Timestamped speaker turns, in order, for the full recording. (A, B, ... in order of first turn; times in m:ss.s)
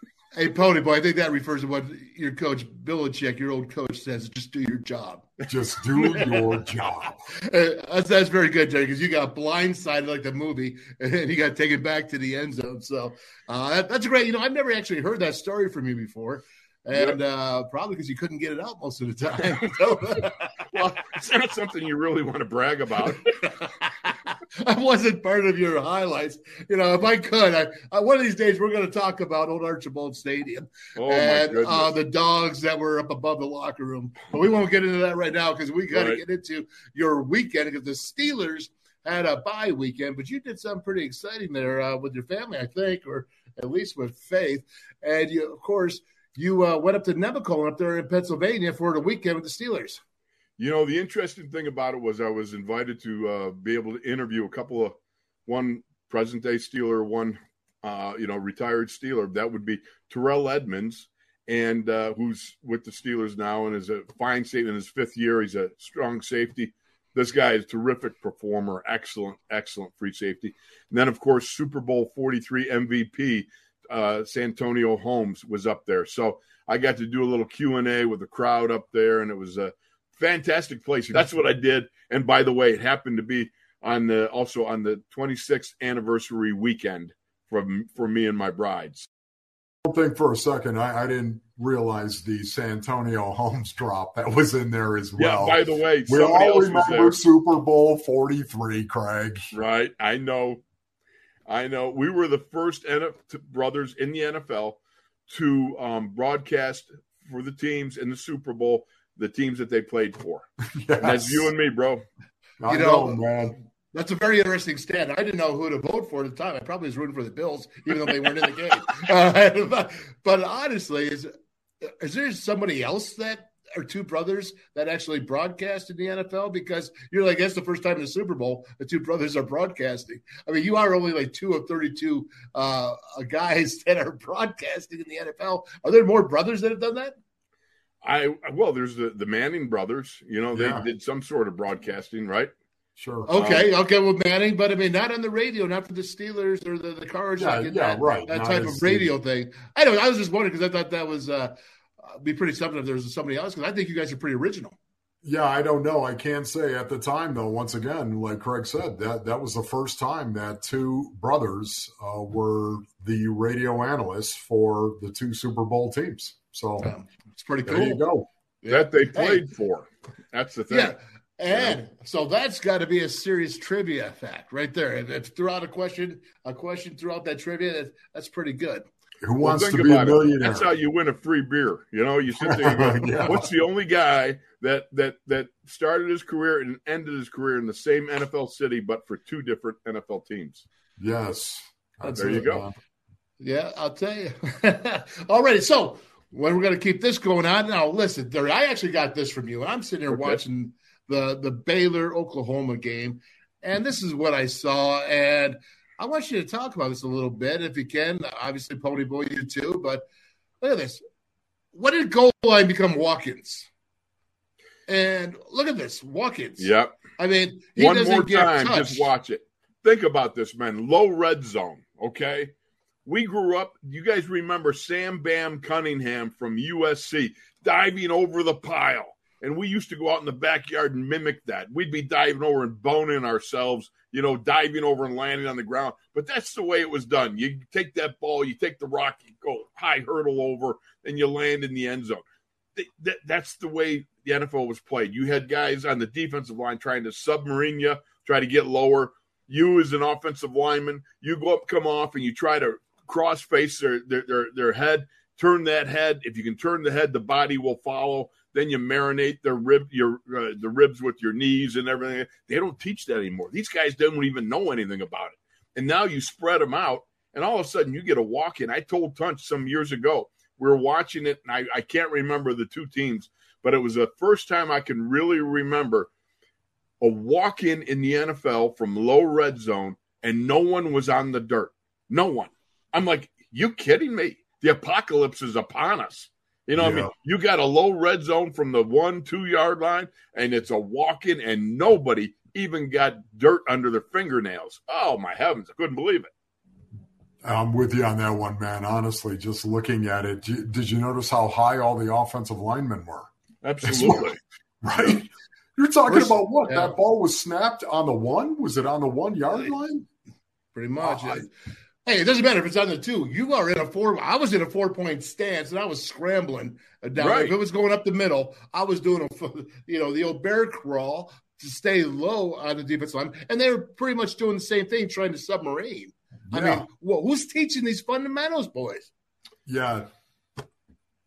0:00.4-0:05.3 A
0:05.5-0:07.2 B
0:06.0-0:06.4 A
0:07.3-0:20.4 A
0:20.7-0:23.3 C
0:23.6-0:50.0 A
0:31.0-0:32.0 C
0:35.9-0:36.2 C
0:50.6-0:54.9 C
0:55.4-1:29.1 C
1:29.8-1:39.5 B
1:35.2-1:37.2 C
1:39.5-1:40.6 C
1:41.5-1:50.5 C
1:50.7-1:51.5 B
1:51.0-1:52.0 C
1:52.6-1:53.6 B
1:52.6-1:53.2 A
1:53.9-2:01.3 A
2:01.8-2:17.1 A
2:18.0-2:22.5 C
2:20.5-2:20.9 B
2:23.0-2:23.3 B
2:23.3-2:31.5 A
2:23.3-2:23.6 C
2:27.4-2:29.1 B
2:32.1-2:34.8 A
2:35.2-2:46.9 B
2:46.8-2:48.0 A
2:47.6-2:48.3 B
2:48.6-2:49.4 A
2:48.7-2:51.0 C
2:50.7-2:58.8 A
2:51.5-2:51.8 C
2:59.2-3:00.7 B
2:59.4-3:10.6 C
3:02.4-3:03.5 B
3:11.0-3:12.7 B
3:12.1-3:12.6 C
3:13.4-3:30.0 A
3:20.1-3:20.4 C
3:30.6-3:31.0 A
3:31.7-3:33.7 A
3:34.9-3:39.1 A
3:36.6-3:37.0 C
3:37.8-3:42.5 C
3:43.0-4:02.2 C
4:02.8-4:36.1 C
4:37.0-4:56.3 C
4:46.7-4:47.1 B
4:57.4-5:03.3 B
5:03.6-5:04.4 C
5:03.8-5:10.0 B
5:06.1-5:07.0 A
5:10.7-5:11.5 A
5:12.0-5:29.1 A
5:17.2-5:17.5 C
5:26.5-5:26.8 B
5:29.6-5:30.1 B